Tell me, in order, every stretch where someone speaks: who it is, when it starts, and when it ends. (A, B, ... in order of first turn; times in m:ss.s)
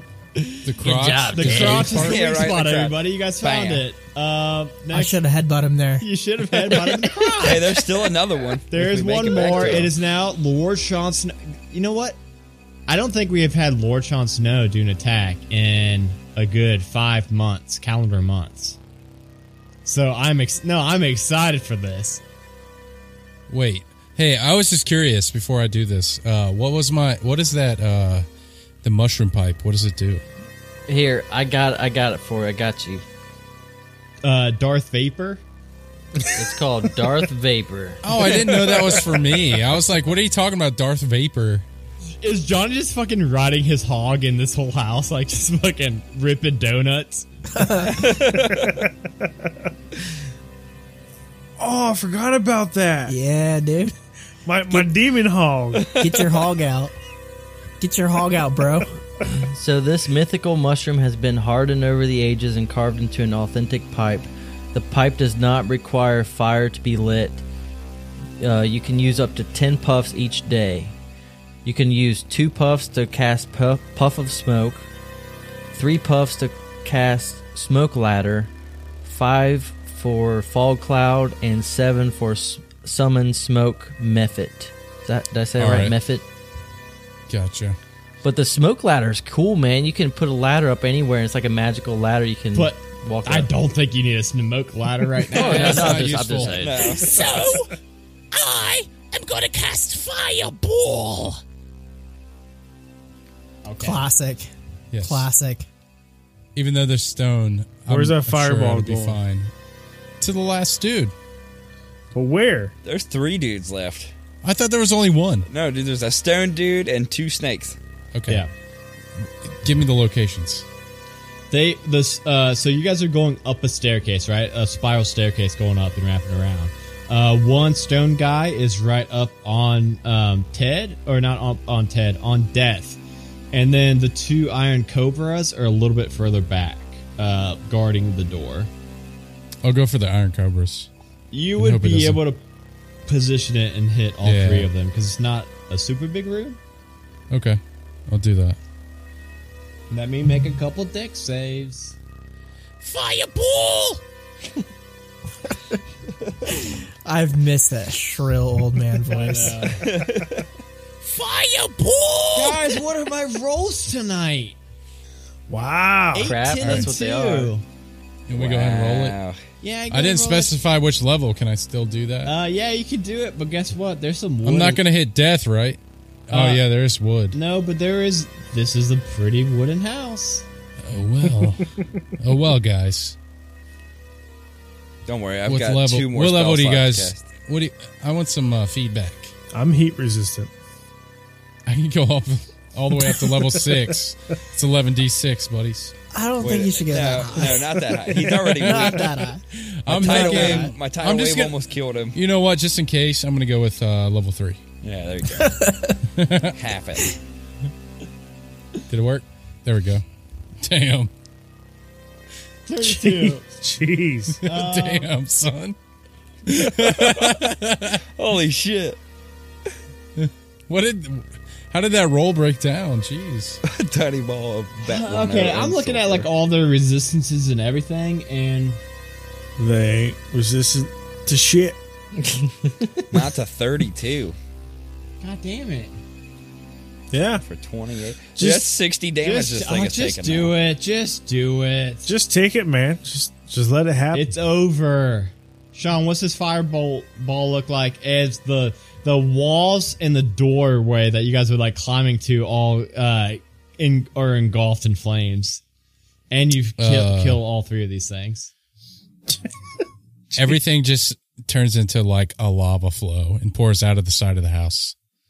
0:00.6-0:02.2 A
0:00.8-0:02.0 B
0:01.3-0:05.2 C
0:01.9-0:03.8 D
0:04.9-0:06.1 E
0:06.0-0:07.9 C
0:07.4-0:09.9 D
0:08.7-0:12.2 C
0:12.9-0:18.8 C
0:19.8-0:22.2 C
0:23.5-0:28.2 A
0:28.8-0:30.2 A
0:30.9-0:33.0 B
0:34.2-0:35.4 C
0:36.3-0:38.0 B
0:38.0-0:41.6 A
0:42.2-0:47.2 C
0:47.5-0:48.1 E
0:48.0-0:48.8 D
0:48.1-0:49.7 F
0:51.6-0:53.1 F
0:53.1-0:53.9 E
0:54.4-0:55.9 F
0:56.0-0:56.9 E
0:57.8-0:59.0 E
0:59.4-1:07.4 B
1:08.4-1:11.0 B
1:11.6-1:14.9 B
1:15.7-1:18.5 B
1:19.0-1:26.2 B
1:25.6-1:26.0 A
1:27.3-1:27.8 A
1:28.2-1:33.5 B
1:32.5-1:36.2 C
1:35.3-1:37.7 B
1:35.3-1:36.6 A
1:36.4-1:37.6 D
1:38.3-1:41.4 B
1:38.9-1:39.5 G
1:43.6-1:44.0 C
1:43.8-1:44.5 E
1:44.9-1:45.3 A
1:45.0-1:45.6 E
1:46.6-1:49.5 A
1:47.9-1:49.2 F
1:50.2-1:51.1 A
1:52.1-1:52.7 F
1:52.8-1:54.1 D
1:54.4-1:55.5 A
1:55.5-1:57.8 D
1:58.1-1:58.4 A
1:59.2-2:00.6 A
2:01.5-2:13.0 C
2:13.5-2:18.7 C
2:19.6-2:20.9 A
2:21.3-2:22.4 C
2:21.6-2:22.2 A
2:23.1-2:26.6 C
2:24.2-2:24.7 A
2:27.3-2:28.6 A
2:29.9-2:32.0 C
2:32.8-2:33.9 G
2:33.7-2:34.0 B
2:37.0-2:39.8 E
2:39.1-2:40.0 C
2:39.8-2:40.4 D
2:41.0-2:42.2 G
2:42.2-2:42.6 B
2:42.3-2:44.6 C
2:45.5-2:46.3 F
2:46.1-2:47.6 C
2:46.2-2:47.5 B
2:46.6-2:46.9 A
2:48.3-2:49.2 A
2:48.3-2:49.4 D
2:49.6-2:50.6 C
2:49.9-2:52.3 A
2:52.2-2:54.8 C
2:54.4-2:57.4 A
2:56.3-2:56.6 C
2:57.3-3:00.4 C
3:00.8-3:03.2 A
3:05.1-3:07.3 D
3:05.4-3:09.3 A
3:09.5-3:10.5 F
3:11.7-3:15.9 A
3:16.1-3:20.8 E
3:16.4-3:19.2 D
3:18.6-3:19.0 A
3:19.5-3:21.6 A
3:19.9-3:22.2 D
3:22.1-3:24.6 A
3:24.8-3:25.6 D
3:25.4-3:26.0 E
3:26.1-3:26.6 A
3:26.5-3:27.1 D
3:28.9-3:30.0 A
3:30.6-3:31.1 A
3:32.7-3:33.4 C
3:32.8-3:34.4 F
3:34.4-3:35.8 A
3:34.4-3:35.1 C
3:36.4-3:38.0 A
3:37.1-3:37.3 D
3:38.2-3:39.0 D
3:40.2-3:43.6 A
3:43.6-3:46.3 D
3:44.8-3:48.8 C
3:49.6-3:51.8 F
3:53.1-3:54.4 D
3:55.2-3:55.9 C
3:57.1-3:57.4 F
3:57.4-4:00.5 D
3:58.4-3:58.7 F
3:59.2-4:02.1 C
4:02.0-4:04.3 F
4:04.1-4:15.6 C
4:16.3-4:18.5 C
4:16.8-4:17.4 A
4:20.3-4:24.9 A